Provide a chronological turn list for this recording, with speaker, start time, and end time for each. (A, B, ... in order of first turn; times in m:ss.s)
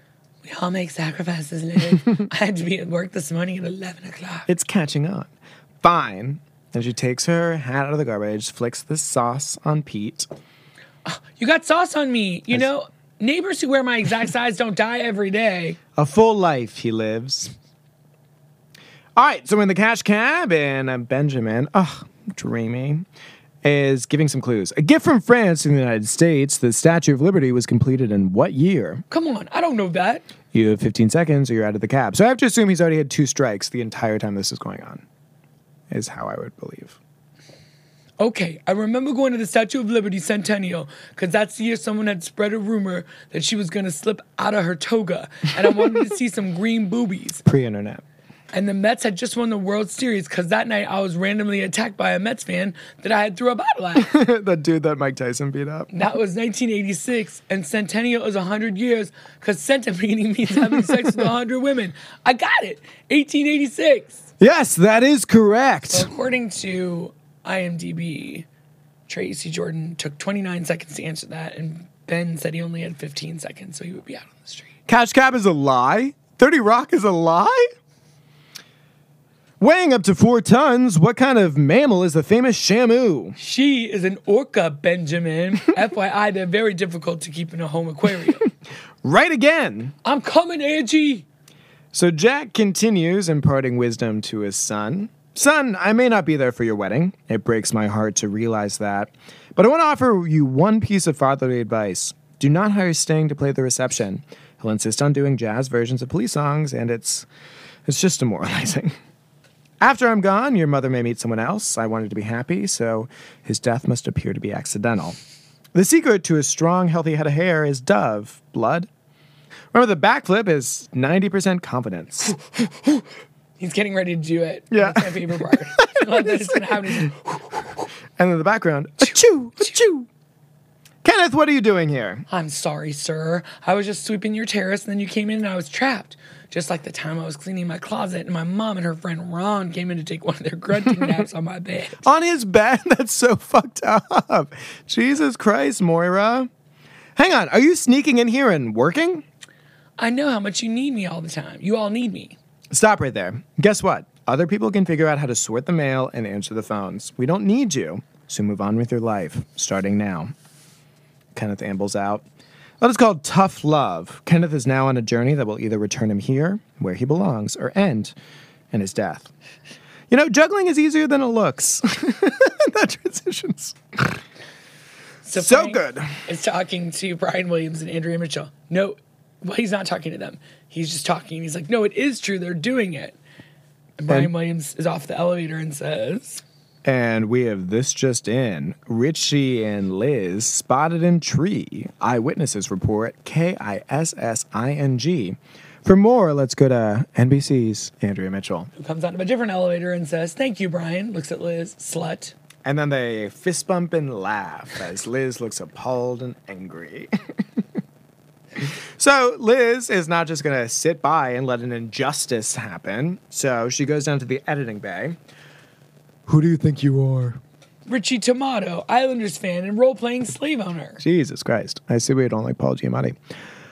0:00.4-0:04.5 A
0:04.5-0:05.3 B
0:05.8-0:10.3 B
0:11.0-0:15.8 A
0:16.0-0:17.5 B
0:19.2-0:23.0 B
0:23.6-0:29.0 B
0:29.1-0:30.3 A
0:30.5-0:35.0 B
0:35.9-0:37.0 B
0:38.2-0:47.4 A
0:47.4-0:48.0 B
0:48.5-0:54.1 A
0:54.0-0:55.9 B
0:55.9-1:04.2 A
1:00.7-1:01.3 B
1:04.4-1:06.1 B
1:05.9-1:08.4 A
1:09.1-1:14.7 A
1:14.9-1:17.7 B
1:19.6-1:23.4 B
1:23.4-1:28.4 A
1:29.0-1:29.9 B
1:30.0-1:31.2 A
1:31.9-1:47.3 B
1:47.8-1:49.0 B
1:49.8-1:55.2 B
1:55.7-1:58.9 B
1:59.7-2:02.4 B
2:03.6-2:07.6 A
2:04.7-2:07.1 B
2:08.2-2:10.1 B
2:11.0-2:12.2 B
2:12.3-2:22.0 A
2:22.0-2:26.5 B
2:27.2-2:29.2 B
2:30.0-2:32.4 A
2:32.7-2:40.3 B
2:41.3-2:42.2 B
2:42.8-2:48.1 B
2:48.7-2:49.3 B
2:50.1-2:54.2 B
2:55.2-3:03.2 A
2:55.3-2:56.1 B
3:04.0-3:06.4 A
3:06.8-3:18.7 B
3:18.8-3:22.3 A
3:22.6-3:27.1 B
3:28.6-3:35.2 B
3:36.2-3:37.4 B
3:37.9-3:41.0 A
3:41.0-3:43.2 B